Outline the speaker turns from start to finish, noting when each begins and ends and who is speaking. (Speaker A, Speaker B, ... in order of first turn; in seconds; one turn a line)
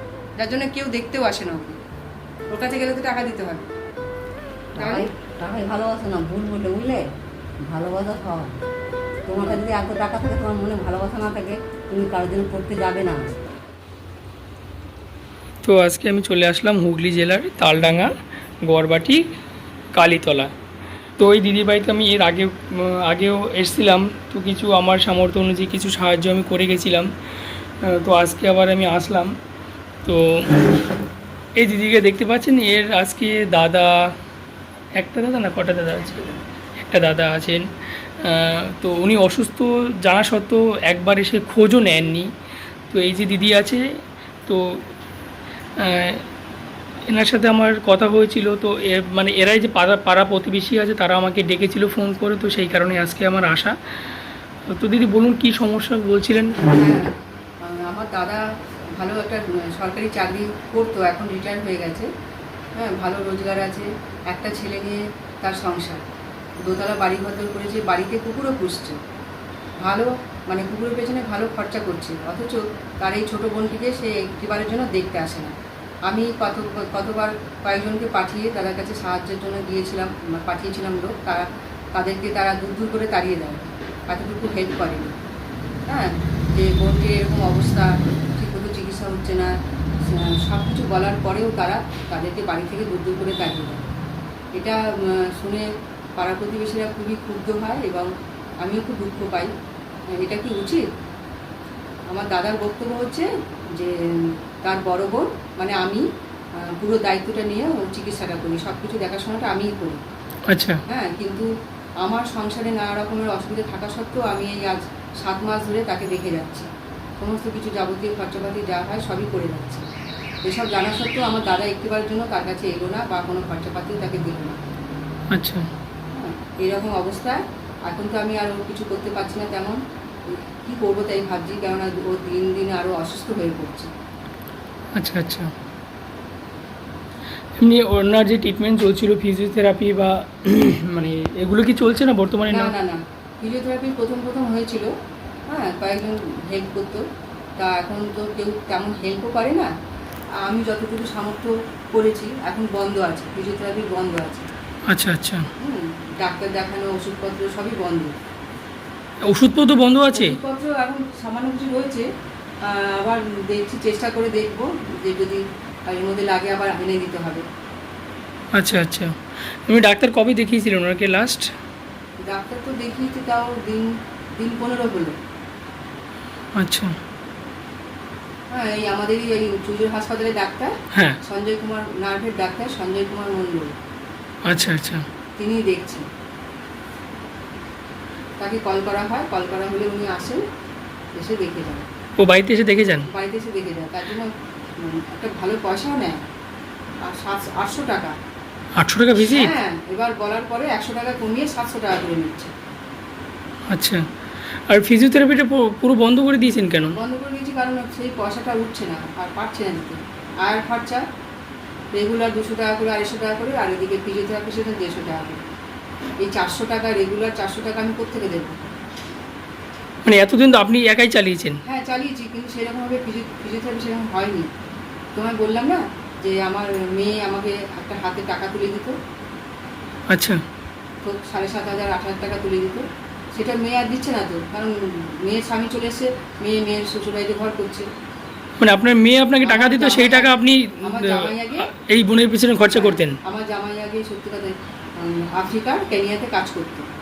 Speaker A: 0.4-1.8
Speaker A: 2.5-3.7
Speaker B: 4.7-7.0
Speaker A: 4.8-5.1
Speaker B: 7.7-8.5
Speaker B: 9.3-13.4
Speaker C: 15.6-18.1
Speaker C: 18.6-19.2
Speaker C: 19.9-20.5
Speaker C: 21.2-27.1
Speaker C: 27.8-29.3
Speaker C: 31.6-33.9
Speaker C: 35.0-37.6
Speaker C: 38.2-42.3
Speaker C: 42.9-43.8
Speaker C: 44.5-44.8
Speaker C: 45.8-46.2
Speaker C: 47.1-53.7
Speaker C: 54.7-56.7
Speaker A: 56.6-62.1
Speaker A: 62.7-66.0
Speaker A: 66.6-69.0
Speaker A: 69.8-75.5
Speaker A: 76.1-85.1
Speaker A: 85.9-93.8
Speaker A: 94.5-98.1
Speaker A: 98.6-99.5
Speaker A: 100.1-100.8
Speaker A: 102.1-106.0
Speaker A: 106.6-110.0
Speaker C: 110.5-110.8
Speaker A: 110.9-111.5
Speaker A: 112.0-116.7
Speaker A: 117.2-119.8
Speaker A: 120.4-124.6
Speaker C: 125.3-125.7
Speaker A: 126.1-133.9
Speaker C: 134.9-135.5
Speaker C: 137.6-142.7
Speaker A: 142.5-144.9
Speaker A: 145.5-147.0
Speaker A: 147.6-149.7
Speaker A: 150.4-154.5
Speaker C: 154.9-155.4
Speaker A: 155.6-158.1
Speaker C: 159.2-160.4
Speaker A: 160.1-162.1
Speaker A: 162.6-167.4
Speaker C: 168.5-169.1
Speaker C: 169.7-171.4
Speaker A: 172.2-175.2
Speaker C: 176.6-176.9
Speaker A: 178.5-183.7
Speaker C: 184.4-185.0
Speaker A: 185.4-186.1
Speaker A: 188.4-190.4
Speaker A: 191.2-191.9
Speaker C: 192.2-193.1
Speaker A: 193.0-196.2
Speaker A: 197.0-198.1
Speaker C: 198.8-199.5
Speaker A: 199.2-202.5
Speaker C: 203.7-204.0
Speaker C: 204.7-206.9
Speaker A: 206.9-211.0
Speaker A: 211.9-215.4
Speaker A: 216.2-218.6
Speaker C: 220.0-221.6
Speaker A: 221.6-224.5
Speaker A: 225.1-228.9
Speaker C: 230.1-230.4
Speaker A: 231.0-237.9
Speaker C: 238.6-243.2
Speaker A: 239.4-241.7
Speaker A: 242.7-246.8